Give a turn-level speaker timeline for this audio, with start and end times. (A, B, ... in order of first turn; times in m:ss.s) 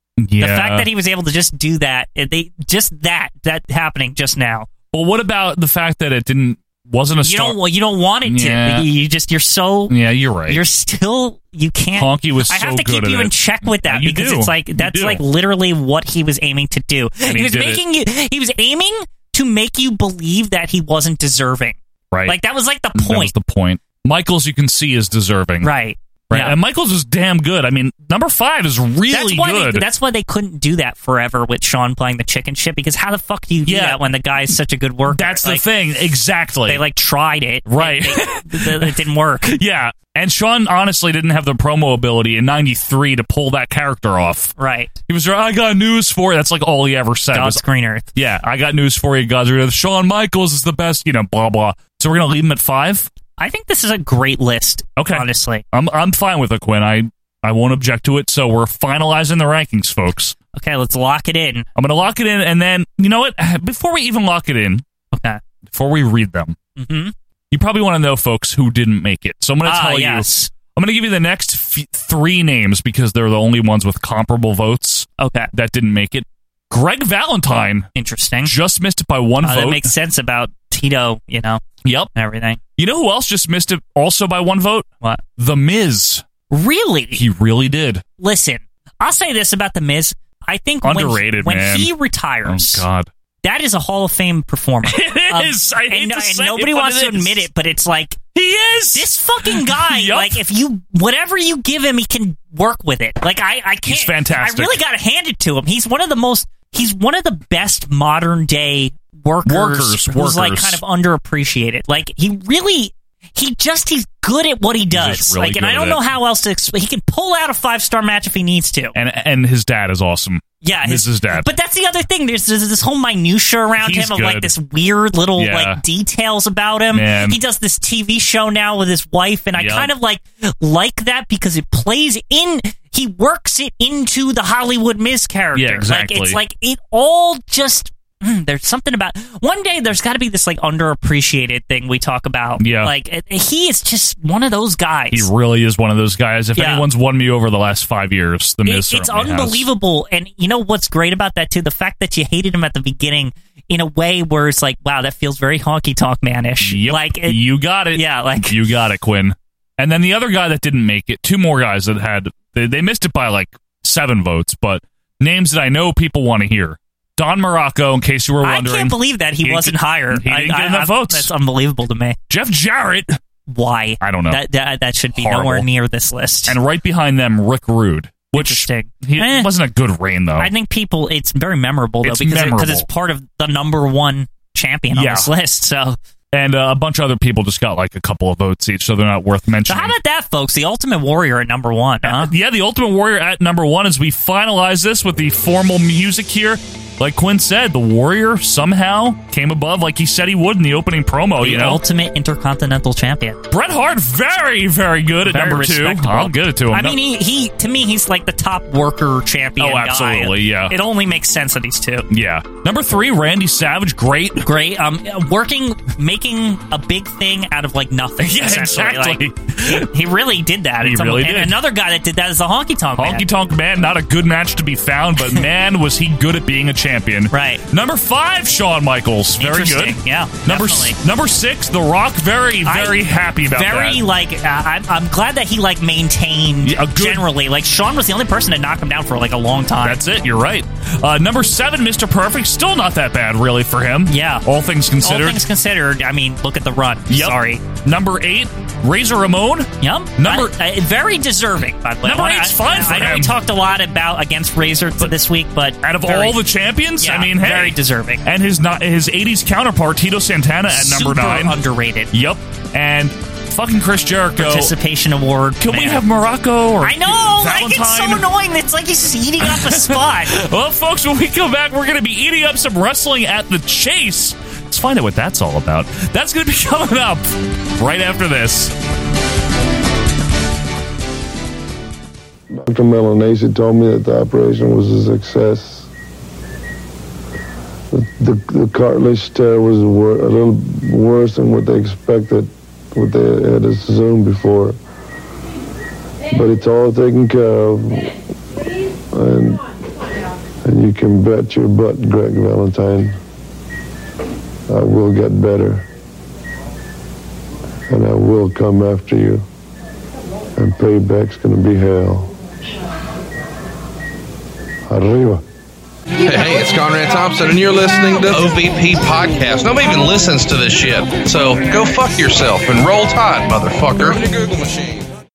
0:00.2-0:00.9 A
0:00.4-0:04.7 B
0:04.9-0:07.6 A
0:07.2-0:09.9 B
0:08.2-0:08.9 A
0:09.9-0:10.6 A
0:10.5-0:23.3 B
0:11.9-0:15.2 A
0:17.3-0:17.8 A
0:22.1-0:22.4 A
0:23.0-0:25.7 A
0:25.6-0:26.6 B
0:26.3-0:29.9 A
0:29.1-0:35.7 B
0:33.7-0:34.0 A
0:35.1-0:36.8 A
0:36.7-0:39.6 B
0:37.7-0:44.5 A
0:44.6-0:44.9 B
0:45.1-0:47.6 A
0:47.3-0:48.1 B
0:48.2-0:53.1 A
0:53.4-0:55.6 B
0:55.0-1:00.4 A
1:00.5-1:01.7 B
1:01.8-1:04.8 A
1:05.1-1:05.4 B
1:05.7-1:06.6 A
1:06.8-1:07.1 B
1:07.5-1:17.9 A
1:09.6-1:10.5 B
1:15.2-1:15.5 B
1:18.0-1:18.5 B
1:18.4-1:19.9 A
1:19.4-1:21.6 B
1:21.8-1:22.1 A
1:22.1-1:22.6 B
1:22.8-1:24.9 A
1:25.4-1:26.3 A
1:26.5-1:27.2 B
1:27.2-1:28.0 A
1:28.2-1:32.8 B
1:30.8-1:31.9 A
1:32.4-1:33.1 A
1:33.4-1:38.2 B
1:34.8-1:37.5 A
1:38.3-1:40.4 A
1:38.9-1:59.0 B
1:43.9-1:44.8 A
1:49.4-1:50.8 A
1:54.9-1:56.0 A
1:59.0-2:01.5 A
2:00.6-2:25.3 B
2:03.8-2:04.5 A
2:05.4-2:05.8 A
2:06.9-2:07.4 A
2:09.6-2:09.9 A
2:15.6-2:16.4 A
2:22.6-2:22.9 A
2:25.1-2:29.7 A
2:26.6-2:26.9 B
2:28.6-2:37.4 B
2:36.6-2:51.3 A
2:37.9-2:38.6 B
2:48.4-2:52.2 B
2:52.3-2:53.2 A
2:53.5-2:56.6 B
2:54.0-2:54.4 A
2:55.2-2:55.7 A
2:56.5-3:00.5 A
2:58.3-2:59.5 B
3:00.4-3:06.0 B
3:02.0-3:02.9 A
3:04.9-3:05.3 A
3:06.3-3:10.0 A
3:09.7-3:12.3 B
3:12.0-3:21.8 A
3:21.4-3:23.4 B
3:23.5-3:27.0 A
3:25.2-3:32.1 B
3:29.6-3:30.8 A
3:32.1-3:34.5 A
3:34.4-3:43.3 B
3:38.2-3:39.9 A
3:40.8-3:41.6 A
3:43.0-3:54.0 A
3:45.2-3:45.5 B
3:47.3-3:47.6 B
3:49.4-3:51.0 B
3:52.6-3:53.0 B
3:53.5-4:00.0 B
3:56.6-3:57.3 A
3:59.8-4:05.4 A
4:04.1-4:04.5 B
4:05.0-4:07.6 B
4:07.1-4:10.5 A
4:09.8-4:16.4 B
4:12.0-4:13.4 A
4:15.8-4:21.6 A
4:17.0-4:18.2 B
4:20.7-4:22.1 B
4:22.1-4:24.7 A
4:24.4-4:26.0 B
4:25.6-4:28.3 A
4:26.8-4:30.4 B
4:29.4-4:38.7 A
4:42.5-4:45.9 C
4:47.9-4:54.8 C
4:56.3-4:58.1 C
4:59.1-4:59.6 C
5:00.6-5:03.2 C
5:04.7-5:05.9 C
5:07.9-5:09.4 C
5:10.6-5:12.3 C
5:14.9-5:15.4 C
5:16.2-5:25.1 D